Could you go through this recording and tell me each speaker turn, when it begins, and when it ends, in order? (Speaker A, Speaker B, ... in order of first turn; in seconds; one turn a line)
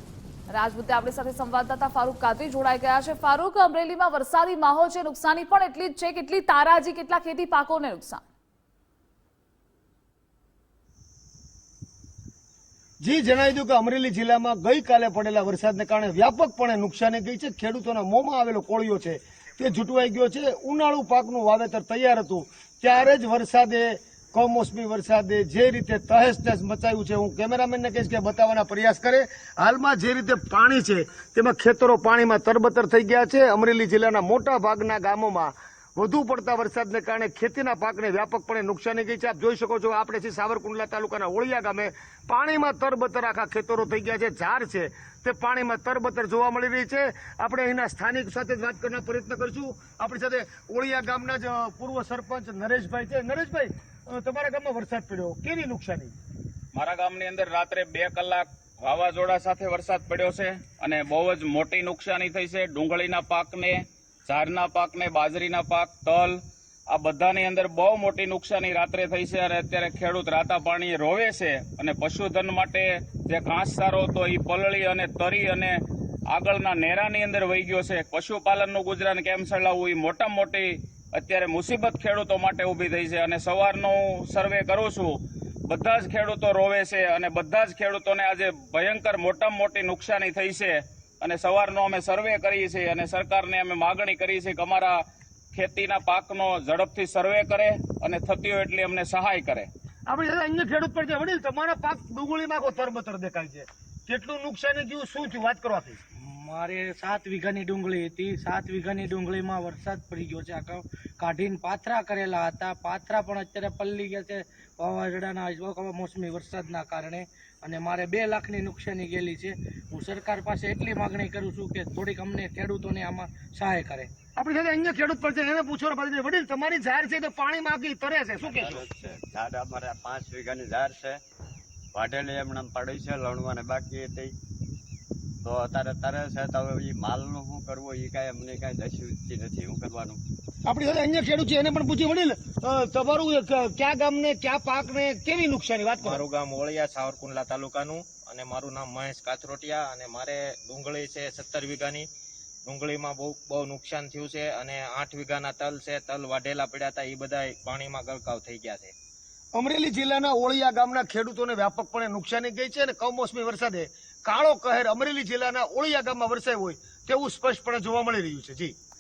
Speaker A: 0.5-8.2
Speaker B: 13.0-56.1
Speaker C: 56.7-66.4
Speaker C: 66.9-75.8
Speaker C: 76.3-95.0
Speaker C: 95.5-99.7
Speaker B: 100.1-106.0
Speaker D: 106.2-124.1
Speaker B: 124.4-128.8
Speaker E: 128.6-131.1
Speaker E: 132.0-134.3
Speaker E: 135.5-140.2
Speaker B: 140.7-146.2
Speaker F: 146.1-152.1
Speaker F: 152.7-158.9
Speaker B: 159.5-168.8